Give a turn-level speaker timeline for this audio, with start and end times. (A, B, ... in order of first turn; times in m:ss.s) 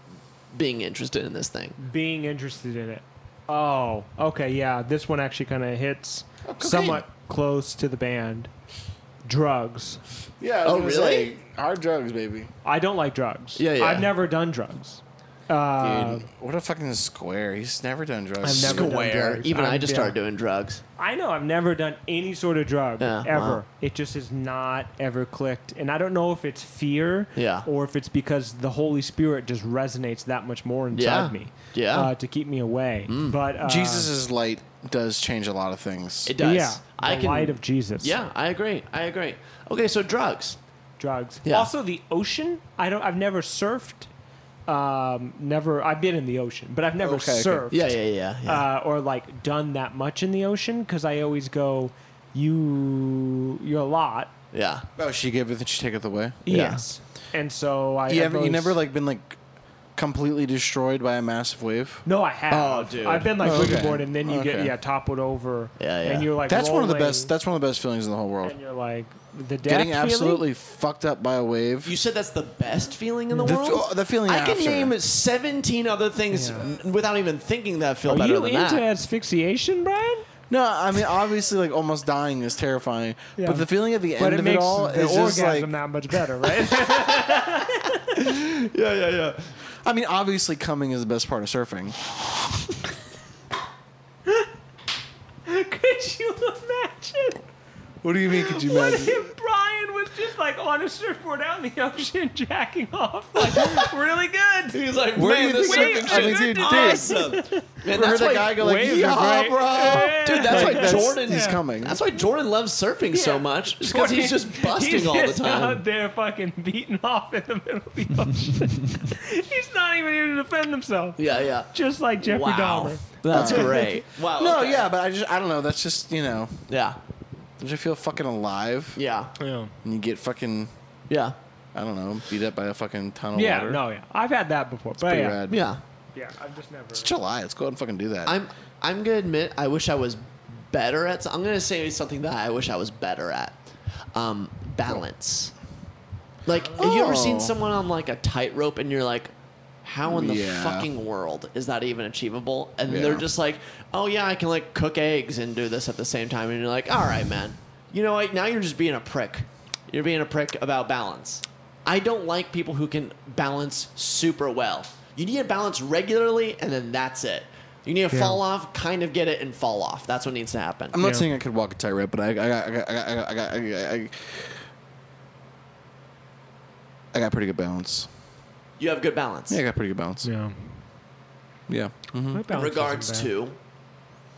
0:00.5-0:01.8 A
0:01.8-0:08.5 B
0:06.4-0:07.0 C
0:09.2-0:10.0 B
0:10.4-0:12.5 C
0:10.6-0:11.3 A
0:12.6-0:16.3 B
0:13.6-0:14.1 A
0:15.8-0:19.0 C
0:18.4-0:20.2 B
0:18.5-0:20.8 A
0:21.0-0:34.1 B
0:23.0-0:23.6 A
0:27.4-0:27.7 A
0:30.9-0:32.1 A
0:33.1-0:33.4 A
0:33.6-0:36.4 C
0:36.3-0:40.6 A
0:36.4-0:38.2 B
0:41.0-0:44.1 B
0:41.4-0:41.7 A
0:44.7-0:54.3 B
0:47.0-0:47.7 C
0:47.7-0:48.7 A
0:54.5-0:54.9 A
0:55.0-0:56.4 C
0:56.4-0:58.8 B
0:56.5-0:56.8 A
0:58.1-0:59.4 C
1:00.0-1:02.0 C
1:02.0-1:07.3 B
1:02.5-1:03.4 A
1:03.4-1:04.8 C
1:05.8-1:06.3 A
1:06.5-1:08.6 C
1:08.4-1:10.4 B
1:09.6-1:12.0 C
1:11.8-1:18.8 A
1:13.3-1:13.6 B
1:13.4-1:15.0 C
1:16.3-1:16.7 B
1:18.1-1:20.3 B
1:20.5-1:25.7 C
1:23.4-1:28.2 B
1:26.8-1:27.3 A
1:28.1-1:29.5 A
1:29.8-1:32.0 C
1:35.5-1:37.4 B
1:38.0-1:39.3 C
1:38.4-1:44.8 B
1:43.4-1:43.9 A
1:44.7-1:48.9 A
1:45.2-1:47.2 C
1:45.5-1:51.6 B
1:47.9-1:52.0 C
1:49.8-1:55.8 A
1:53.1-2:04.0 B
2:01.2-2:04.9 A
2:03.3-2:06.7 C
2:06.7-2:07.0 A
2:07.6-2:09.0 C
2:09.0-2:09.3 A
2:09.4-2:09.7 B
2:09.8-2:10.7 C
2:11.1-2:11.4 A
2:11.7-2:13.8 C
2:13.4-2:15.4 B
2:15.0-2:15.6 C
2:15.5-2:15.8 A
2:16.1-2:17.1 B
2:16.9-2:18.4 C
2:18.3-2:23.6 A
2:24.1-2:25.5 A
2:26.5-2:29.3 A
2:26.5-2:26.8 B
2:26.8-2:27.6 C
2:29.8-2:51.0 A
2:30.0-2:30.9 C
2:32.9-2:33.2 C
2:48.1-2:48.4 B
2:50.9-2:54.6 C
2:51.0-2:51.3 B
2:57.1-2:58.1 C
2:58.8-2:59.6 A
2:59.5-3:00.3 C
3:00.2-3:00.8 B
3:01.7-3:02.4 C
3:02.3-3:03.3 B
3:02.5-3:03.6 A